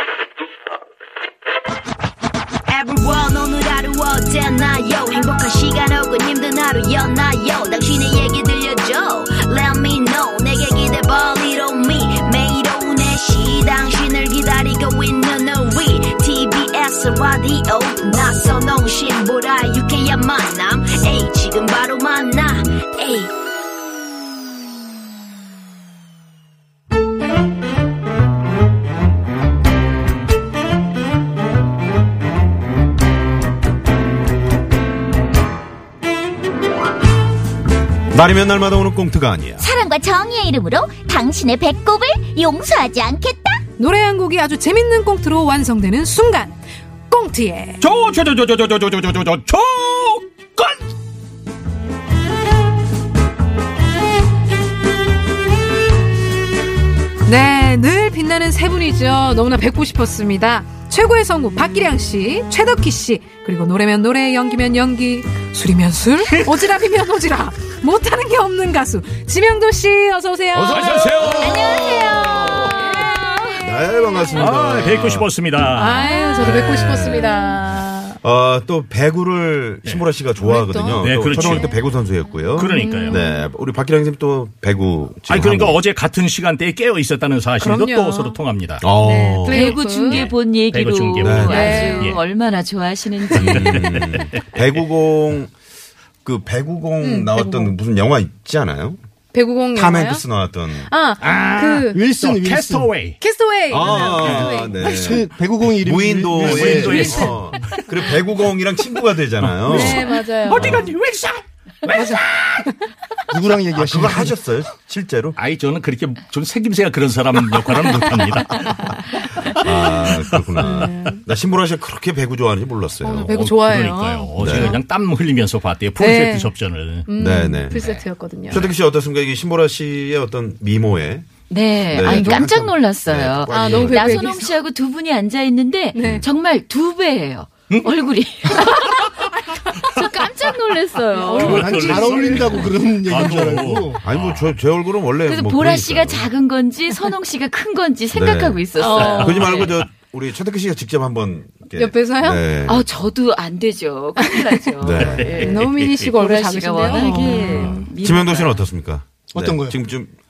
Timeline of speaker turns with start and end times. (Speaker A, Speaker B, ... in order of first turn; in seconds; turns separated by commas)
Speaker A: 2.7-23.3, Speaker B: 38.1-39.6, Speaker C: 39.6-43.6, Speaker D: 43.8-46.6, Speaker D: 47.1-47.8, Speaker E: 47.8-50.8, Speaker D: 57.2-71.4, Speaker B: 70.5-73.0, Speaker E: 70.7-72.0, Speaker C: 71.4-73.6, Speaker B: 73.6-75.3, Speaker E: 74.4-76.5, Speaker D: 75.8-78.2, Speaker B: 76.4-77.3, Speaker B: 78.2-85.8, Speaker D: 80.4-81.7, Speaker E: 81.0-81.7, Speaker E: 82.6-83.2, Speaker D: 82.7-83.5, Speaker E: 85.3-88.9, Speaker D: 87.6-88.4, Speaker B: 88.8-89.8, Speaker D: 89.0-90.3, Speaker F: 89.5-93.9, Speaker E: 90.1-92.2, Speaker B: 91.2-92.0, Speaker D: 91.5-92.2, Speaker B: 93.4-95.5, Speaker E: 93.4-94.3, Speaker B: 96.2-99.0, Speaker D: 97.0-97.8, Speaker D: 99.3-100.2, Speaker B: 99.7-100.9, Speaker D: 100.9-102.0, Speaker E: 101.2-103.2, Speaker G: 101.9-102.9, Speaker D: 103.2-105.0, Speaker B: 103.7-110.8, Speaker E: 103.9-104.5, Speaker G: 104.8-107.3, Speaker E: 106.3-108.2, Speaker D: 106.9-107.3, Speaker E: 109.4-112.7, Speaker D: 109.7-110.9, Speaker G: 113.3-114.4, Speaker B: 113.8-115.4, Speaker E: 115.4-120.7, Speaker D: 118.5-119.5, Speaker B: 119.5-123.4, Speaker D: 120.6-121.2, Speaker D: 123.0-124.8, Speaker E: 123.3-127.1, Speaker B: 124.4-124.8, Speaker D: 126.0-126.5, Speaker D: 127.1-128.7, Speaker B: 127.2-128.0, Speaker B: 128.5-131.3, Speaker F: 131.5-139.2, Speaker B: 131.9-134.4, Speaker D: 132.0-132.5, Speaker D: 133.5-134.6, Speaker D: 135.9-136.3, Speaker B: 136.0-136.2, Speaker F: 139.8-142.1, Speaker D: 141.2-142.5, Speaker E: 141.3-144.5, Speaker G: 141.4-144.0, Speaker B: 144.0-146.2, Speaker F: 145.3-149.8, Speaker B: 148.1-152.9, Speaker D: 148.8-149.7, Speaker D: 151.8-152.4, Speaker F: 152.7-158.6, Speaker D: 154.2-154.7, Speaker B: 154.8-155.4, Speaker E: 155.0-155.8, Speaker D: 155.3-157.9, Speaker E: 157.1-157.8, Speaker B: 158.0-160.1, Speaker G: 159.3-159.9